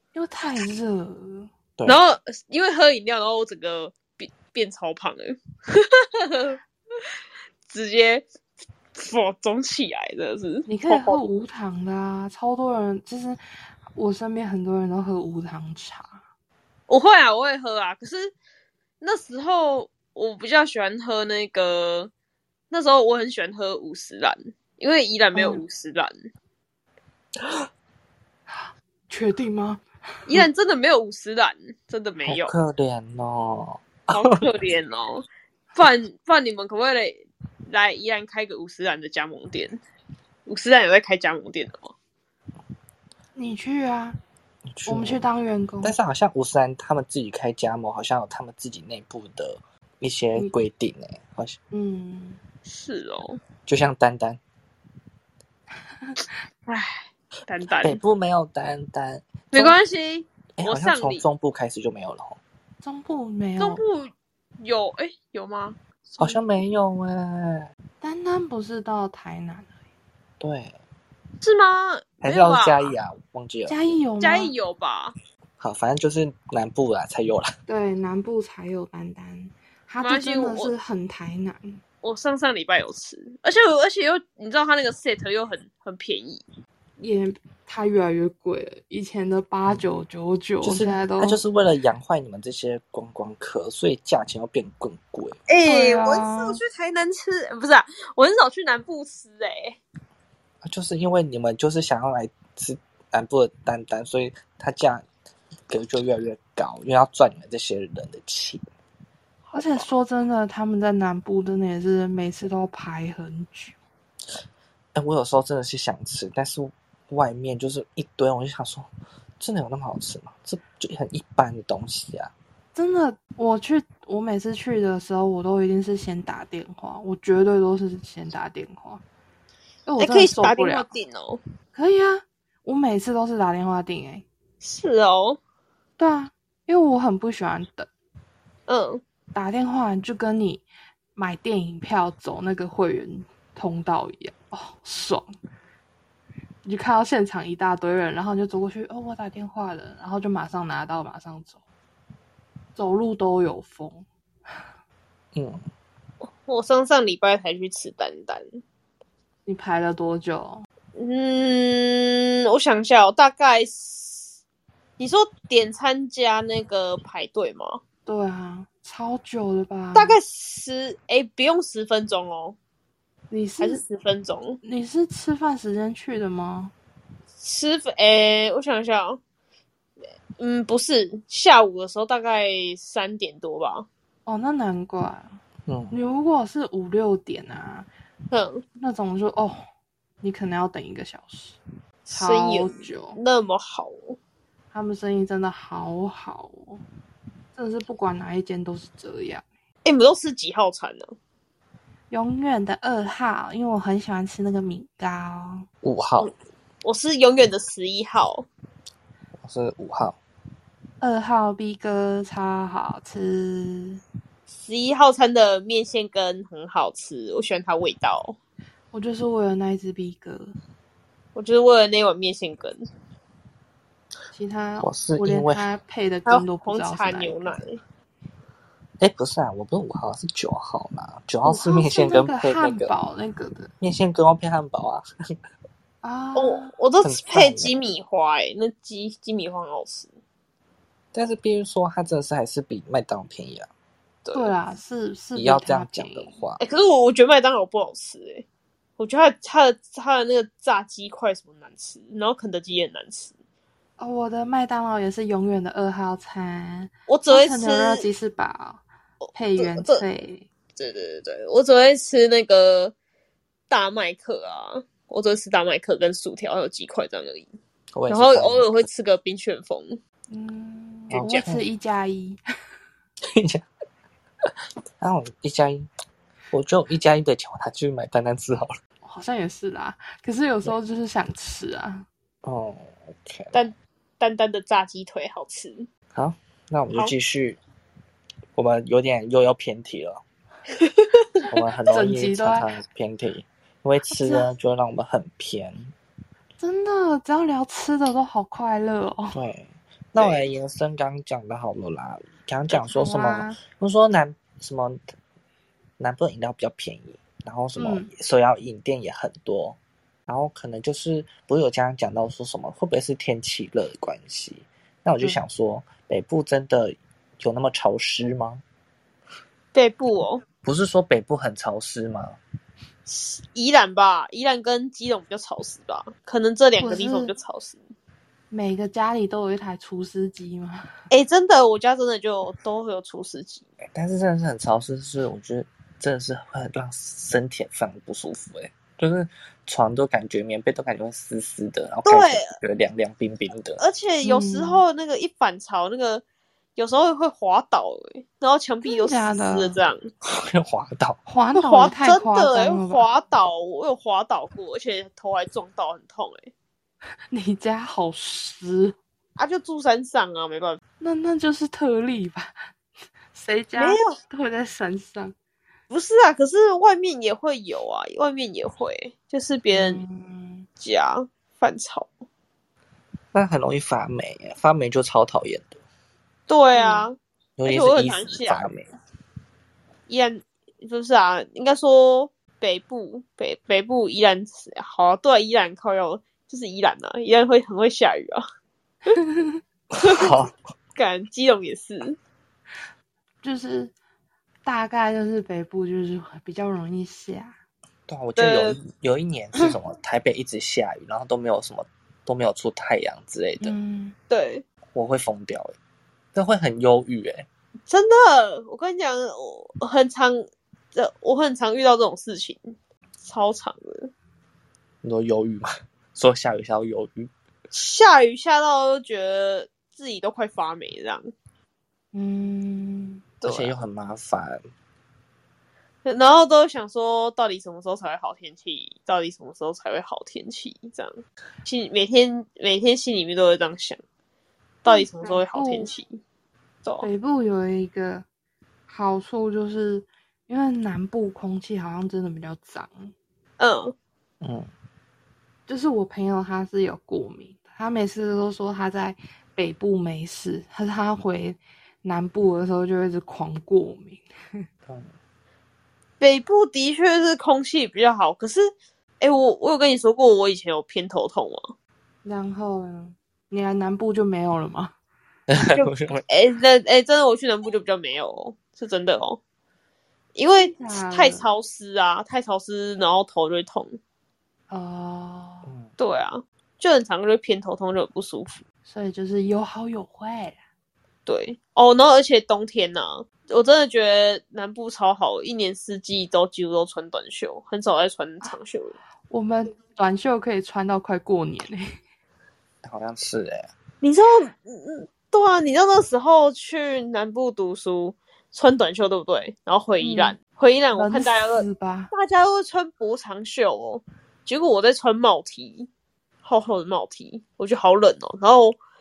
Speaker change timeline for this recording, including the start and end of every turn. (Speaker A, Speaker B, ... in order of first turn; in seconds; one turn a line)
Speaker A: 0.1-1.5
Speaker B: 1.9-6.6
Speaker B: 7.7-8.3
Speaker B: 8.9-11.2
Speaker A: 10.7-13.4
Speaker A: 13.9-16.2
Speaker B: 16.9-18.3
Speaker B: 19.0-22.1
Speaker B: 22.7-26.2
Speaker A: 25.3-25.6
Speaker A: 28.5-30.4
Speaker B: 30.3-32.5
Speaker C: 32.2-34.4
Speaker B: 34.1-39.8
Speaker B: 40.5-41.9
Speaker A: 43.3-44.2
Speaker C: 44.7-45.2
Speaker A: 44.9-45.9
Speaker C: 45.8-51.6
Speaker A: 51.7-52.4
Speaker B: 52.7-53.4
Speaker C: 53.7-54.4
Speaker B: 56.7-58.0
Speaker C: 57.8-59.7
Speaker B: 59.5-61.2
Speaker C: 60.6-62.4
Speaker A: 62.8-63.8
Speaker B: 63.6-65.8
Speaker C: 66.2-67.7
Speaker A: 68.0-69.7
Speaker C: 70.4-70.8
Speaker B: 71.4-72.9
Speaker C: 72.2-73.8
Speaker A: 73.7-74.5
Speaker B: 74.2-75.2
Speaker C: 75.6-77.5
Speaker A: 77.7-81.8
Speaker B: 80.0-80.7
Speaker B: 82.0-86.4
Speaker A: 87.0-91.4
Speaker C: 90.6-95.4
Speaker B: 95.5-99.8
Speaker A: 95.6-96.6
Speaker C: 100.6-105.0
Speaker C: 105.7-108.6
Speaker B: 109.5-109.8
Speaker A: 109.5-113.8
Speaker C: 114.9-118.9
Speaker C: 119.4-122.3
Speaker A: 122.7-129.0
Speaker A: 129.8-130.9
Speaker B: 130.0-131.4
Speaker A: 131.7-134.2
Speaker B: 134.6-135.4
Speaker A: 136.0-137.9
Speaker B: 138.7-139.0
Speaker A: 139.3-140.6
Speaker A: 141.2-145.3
Speaker A: 146.6-151.6
Speaker A: 152.8-154.1
Speaker C: 155.3-155.6
Speaker B: 156.4-158.6
Speaker A: 159.4-160.6
Speaker B: 160.9-164.4
Speaker B: 165.0-167.8
Speaker A: 168.1-170.2
Speaker B: 169.9-172.6
Speaker A: 173.3-173.8
Speaker B: 173.6-174.6
Speaker A: 174.6-176.7
Speaker B: 177.4-179.2
Speaker B: 180.4-183.9
Speaker A: 184.2-185.4
Speaker C: 185.7-185.9
Speaker A: 185.9-187.9
Speaker B: 188.3-188.6
Speaker A: 188.8-189.6
Speaker A: 190.2-191.6
Speaker B: 192.1-194.2
Speaker A: 192.1-193.2
Speaker A: 194.7-196.8
Speaker A: 197.5-199.4
Speaker B: 199.8-201.1
Speaker A: 202.1-205.7
Speaker C: 205.8-206.3
Speaker B: 206.8-208.4
Speaker C: 209.4-210.2
Speaker A: 211.0-214.0
Speaker B: 214.5-218.4
Speaker A: 218.9-220.5
Speaker B: 221.3-222.9
Speaker A: 224.3-227.6
Speaker C: 224.8-225.6
Speaker B: 226.3-227.8
Speaker C: 229.0-232.9
Speaker A: 231.4-233.7
Speaker C: 233.8-235.0
Speaker A: 236.0-236.7
Speaker B: 236.3-240.1
Speaker C: 237.0-237.7
Speaker C: 241.1-243.7
Speaker B: 244.2-244.5
Speaker A: 244.3-246.4
Speaker C: 245.3-246.6
Speaker B: 246.6-248.4
Speaker B: 249.0-253.3
Speaker A: 254.0-258.8
Speaker B: 257.1-258.1
Speaker B: 259.2-260.0
Speaker A: 259.3-260.5
Speaker B: 260.7-262.9
Speaker B: 263.7-267.5
Speaker C: 267.9-268.8
Speaker B: 268.1-270.0
Speaker A: 270.3-272.4
Speaker C: 271.1-271.6
Speaker B: 271.1-271.5
Speaker C: 273.2-273.7
Speaker C: 275.0-275.9
Speaker C: 276.5-278.7
Speaker A: 279.0-282.1
Speaker C: 282.4-283.6
Speaker B: 283.5-285.9
Speaker C: 286.1-287.6
Speaker C: 288.5-290.2
Speaker B: 290.8-291.4
Speaker C: 291.5-295.9
Speaker A: 291.9-292.6
Speaker A: 294.1-294.5
Speaker A: 296.6-299.4
Speaker C: 299.3-305.0
Speaker B: 300.2-300.4
Speaker A: 302.8-303.6
Speaker C: 306.0-318.6
Speaker A: 307.8-308.1
Speaker B: 319.7-320.4
Speaker C: 320.6-322.4
Speaker B: 323.1-327.8
Speaker A: 326.8-327.3
Speaker A: 328.5-330.9
Speaker B: 331.1-333.6
Speaker C: 333.9-343.8
Speaker B: 342.0-342.6
Speaker B: 343.8-346.2
Speaker A: 344.2-344.8
Speaker B: 346.8-350.1
Speaker A: 348.8-349.8
Speaker C: 350.2-351.2
Speaker A: 351.3-353.0
Speaker B: 351.5-356.5
Speaker A: 357.3-359.0
Speaker B: 359.4-360.8
Speaker A: 361.0-362.6
Speaker A: 363.3-365.3
Speaker B: 363.8-364.2
Speaker B: 365.9-370.0
Speaker A: 369.7-370.7
Speaker B: 370.8-372.1
Speaker C: 373.3-375.8
Speaker B: 376.5-378.7
Speaker A: 376.7-377.1
Speaker C: 377.6-378.9
Speaker B: 380.1-388.4
Speaker A: 389.1-389.6
Speaker C: 389.9-390.5
Speaker B: 390.0-390.3
Speaker B: 390.9-392.2
Speaker A: 393.4-393.9
Speaker A: 394.6-397.6
Speaker C: 398.1-403.8
Speaker B: 398.4-398.8
Speaker A: 403.6-404.1
Speaker B: 404.3-404.6
Speaker C: 404.9-405.8
Speaker C: 406.3-407.5
Speaker B: 407.9-414.1
Speaker C: 415.0-417.3
Speaker B: 417.7-421.3
Speaker A: 422.1-423.3
Speaker B: 423.4-423.8
Speaker C: 423.4-424.6
Speaker B: 426.0-434.0
Speaker B: 434.8-436.2
Speaker A: 434.9-435.9
Speaker A: 437.0-438.2
Speaker A: 438.9-443.1
Speaker B: 443.6-443.9
Speaker C: 444.4-444.7
Speaker A: 445.7-454.6
Speaker B: 456.2-461.7
Speaker A: 462.2-464.9
Speaker C: 465.5-466.2
Speaker B: 465.7-469.4
Speaker B: 470.3-474.0
Speaker A: 470.6-471.4
Speaker A: 474.7-475.7
Speaker C: 475.6-475.9
Speaker B: 476.0-478.6
Speaker A: 478.8-480.6
Speaker B: 481.2-489.0
Speaker A: 489.3-492.0
Speaker C: 492.8-493.7
Speaker B: 494.0-505.9
Speaker A: 500.0-500.3
Speaker A: 500.9-502.1
Speaker B: 506.4-508.8